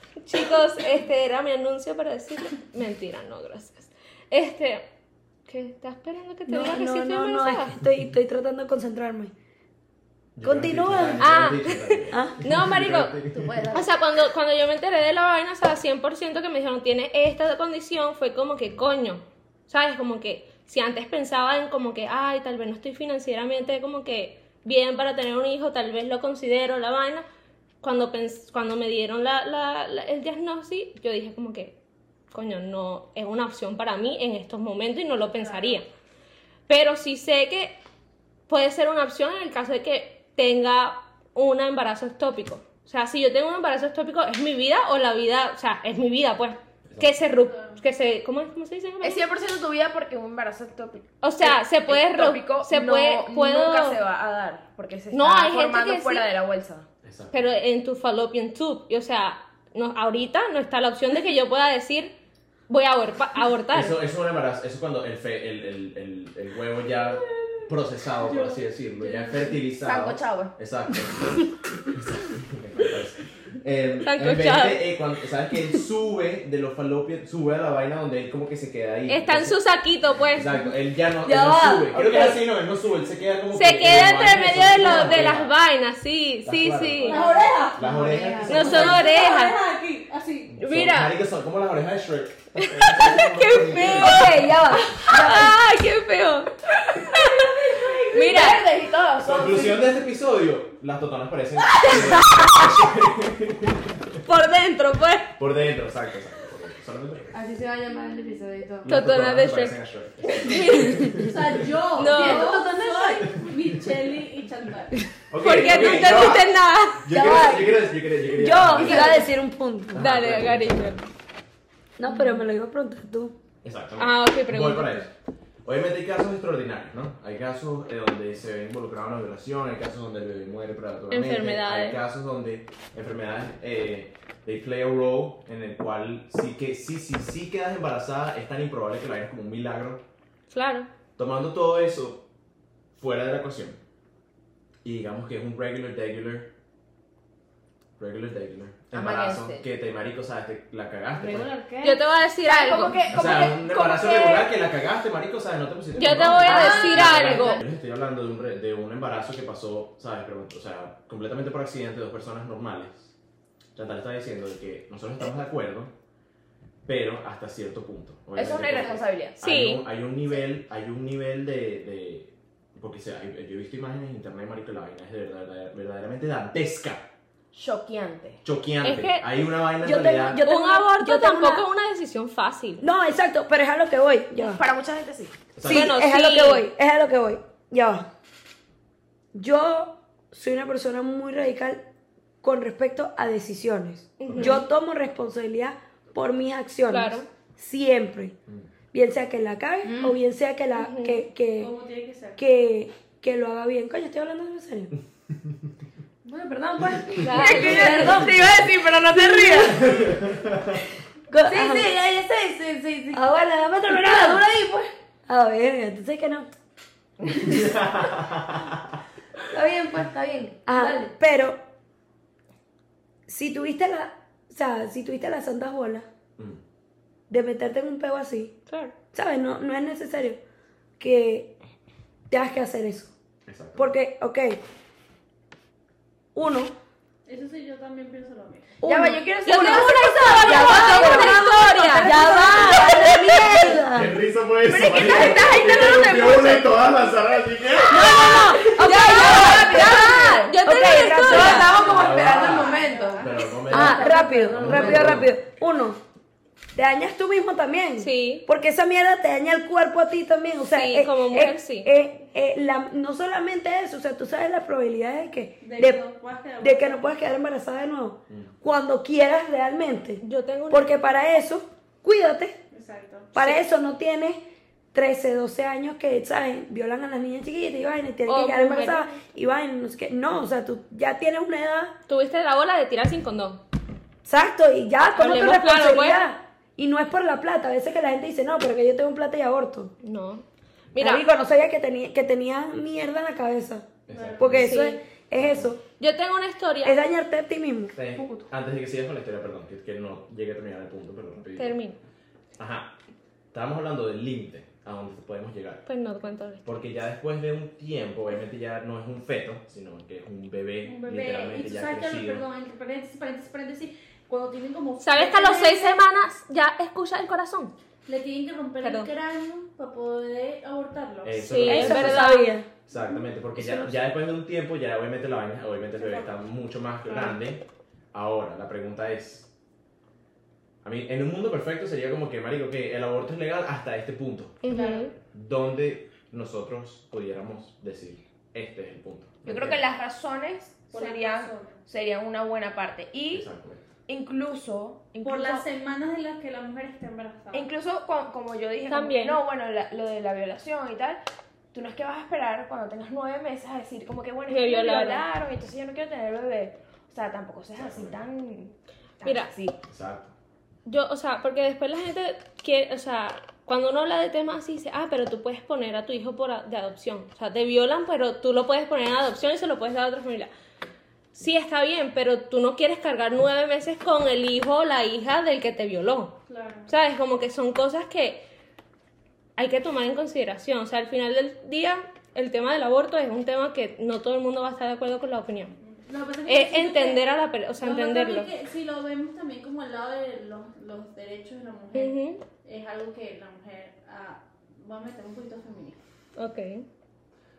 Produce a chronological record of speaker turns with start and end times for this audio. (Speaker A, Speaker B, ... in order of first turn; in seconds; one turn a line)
Speaker A: 0.2-4.9
Speaker A: 5.5-7.8
Speaker B: 6.5-9.3
Speaker C: 10.4-13.5
Speaker B: 10.4-11.3
Speaker A: 11.2-13.2
Speaker D: 13.3-13.9
Speaker A: 13.7-27.2
Speaker A: 27.8-31.8
Speaker A: 32.3-35.9
Speaker E: 35.3-35.8
Speaker A: 36.7-37.8
Speaker A: 38.5-49.2
Speaker E: 47.5-47.8
Speaker D: 49.0-56.9
Speaker A: 51.2-54.0
Speaker A: 55.1-56.3
Speaker C: 57.0-57.5
Speaker A: 57.3-62.2
Speaker A: 62.7-64.0
Speaker C: 63.7-79.6
Speaker E: 68.2-69.6
Speaker D: 69.8-70.5
Speaker A: 74.0-75.0
Speaker A: 79.1-80.7
Speaker C: 80.4-85.5
Speaker B: 81.2-82.4
Speaker A: 83.5-87.3
Speaker C: 86.5-87.2
Speaker E: 87.0-87.8
Speaker F: 87.2-89.0
Speaker C: 87.8-89.1
Speaker A: 88.5-89.6
Speaker E: 88.5-90.5
Speaker C: 90.5-94.2
Speaker A: 90.6-91.1
Speaker A: 92.6-97.3
Speaker B: 93.8-95.6
Speaker F: 97.4-98.3
Speaker D: 98.1-99.8
Speaker A: 98.1-98.6
Speaker C: 99.2-104.2
Speaker A: 104.3-105.3
Speaker C: 105.4-107.4
Speaker F: 107.3-108.9
Speaker C: 108.8-111.6
Speaker A: 108.9-109.8
Speaker A: 110.4-111.4
Speaker E: 111.1-115.0
Speaker A: 112.0-112.7
Speaker F: 112.0-113.4
Speaker C: 115.3-119.3
Speaker A: 115.4-117.0
Speaker B: 117.1-120.1
Speaker A: 118.8-119.3
Speaker C: 119.9-121.0
Speaker A: 120.0-121.0
Speaker B: 122.0-123.4
Speaker C: 123.6-125.1
Speaker A: 124.0-125.1
Speaker C: 125.7-140.0
Speaker A: 131.1-132.0
Speaker A: 140.5-140.9
Speaker C: 141.2-142.2
Speaker C: 142.9-143.8
Speaker C: 144.8-146.5
Speaker C: 148.0-151.5
Speaker D: 148.9-149.7
Speaker F: 151.2-152.0
Speaker A: 151.8-153.0
Speaker D: 152.4-154.5
Speaker C: 153.1-163.1
Speaker A: 156.0-157.6
Speaker D: 156.2-157.6
Speaker F: 157.3-157.5
Speaker C: 163.8-165.9
Speaker C: 166.9-177.1
Speaker D: 168.3-169.4
Speaker A: 169.4-169.8
Speaker D: 177.5-178.4
Speaker C: 178.4-180.4
Speaker A: 178.8-179.2
Speaker B: 179.8-181.7
Speaker A: 180.4-182.8
Speaker B: 182.8-184.6
Speaker D: 184.4-185.4
Speaker C: 185.6-185.9
Speaker A: 185.6-186.7
Speaker B: 185.6-188.1
Speaker B: 189.3-191.8
Speaker B: 192.4-198.4
Speaker A: 194.2-194.6
Speaker C: 194.2-194.6
Speaker A: 196.9-197.3
Speaker B: 198.9-201.7
Speaker F: 199.8-200.2
Speaker A: 200.8-201.2
Speaker E: 201.6-202.4
Speaker B: 202.4-204.9
Speaker F: 206.2-210.1
Speaker A: 207.2-208.2
Speaker B: 207.3-210.0
Speaker D: 207.6-209.2
Speaker C: 209.8-210.8
Speaker B: 211.3-211.9
Speaker F: 211.4-213.3
Speaker B: 213.1-214.4
Speaker F: 213.9-214.9
Speaker B: 215.3-216.5
Speaker C: 217.5-218.7
Speaker F: 219.5-221.1
Speaker B: 220.7-221.6
Speaker B: 223.3-226.1
Speaker B: 227.3-228.6
Speaker A: 228.7-228.9
Speaker B: 229.1-230.4
Speaker B: 231.0-231.6
Speaker B: 232.3-233.1
Speaker C: 233.5-233.9
Speaker B: 233.8-234.6
Speaker B: 236.3-236.7
Speaker E: 237.3-238.7
Speaker B: 238.8-244.2
Speaker D: 238.8-243.7
Speaker A: 239.4-243.5
Speaker F: 242.0-243.8
Speaker C: 243.9-248.4
Speaker D: 244.7-246.8
Speaker B: 247.9-251.7
Speaker A: 247.9-251.8
Speaker D: 248.2-250.6
Speaker F: 251.1-255.2
Speaker C: 251.7-255.3
Speaker E: 251.8-254.7
Speaker B: 253.7-256.0
Speaker B: 256.8-266.0
Speaker A: 258.0-258.4
Speaker A: 260.7-261.9
Speaker E: 265.6-267.1
Speaker B: 266.6-272.6
Speaker A: 270.2-270.9
Speaker E: 272.7-273.4
Speaker B: 273.3-274.4
Speaker B: 274.9-281.9
Speaker A: 278.3-279.2
Speaker A: 282.1-283.6
Speaker B: 284.2-289.9
Speaker A: 285.1-286.2
Speaker A: 290.0-291.2
Speaker B: 291.0-295.8
Speaker C: 294.1-294.7
Speaker E: 294.1-294.5
Speaker A: 294.5-295.0
Speaker C: 295.4-295.7
Speaker A: 296.0-297.0
Speaker B: 296.8-298.0
Speaker C: 298.0-301.8
Speaker F: 298.1-298.5
Speaker A: 301.6-302.0
Speaker C: 302.6-302.9
Speaker C: 303.5-305.9
Speaker A: 305.9-306.7
Speaker C: 306.6-312.4
Speaker E: 310.8-316.0
Speaker A: 315.0-317.7
Speaker E: 318.1-321.9
Speaker A: 318.8-319.1
Speaker C: 321.2-322.4
Speaker A: 321.5-322.6
Speaker B: 321.7-322.7
Speaker C: 322.9-329.5
Speaker B: 323.6-323.9
Speaker E: 326.0-326.3
Speaker E: 327.1-327.4
Speaker C: 330.8-334.6
Speaker A: 334.6-335.1
Speaker E: 334.7-335.1
Speaker C: 335.3-339.8
Speaker D: 339.5-343.5
Speaker E: 340.9-341.8
Speaker C: 343.3-343.8
Speaker D: 344.1-345.7
Speaker E: 345.2-347.7
Speaker D: 347.5-351.2
Speaker A: 348.9-349.4
Speaker D: 351.7-359.8
Speaker A: 354.5-355.2
Speaker C: 357.8-358.2
Speaker A: 359.2-359.5
Speaker C: 359.8-360.3
Speaker A: 360.9-370.5
Speaker A: 371.4-376.4
Speaker E: 376.5-376.9
Speaker A: 376.9-378.5
Speaker A: 379.6-385.8
Speaker E: 385.8-387.3
Speaker A: 386.5-388.5
Speaker E: 387.8-396.0
Speaker A: 391.9-392.4
Speaker A: 396.4-396.9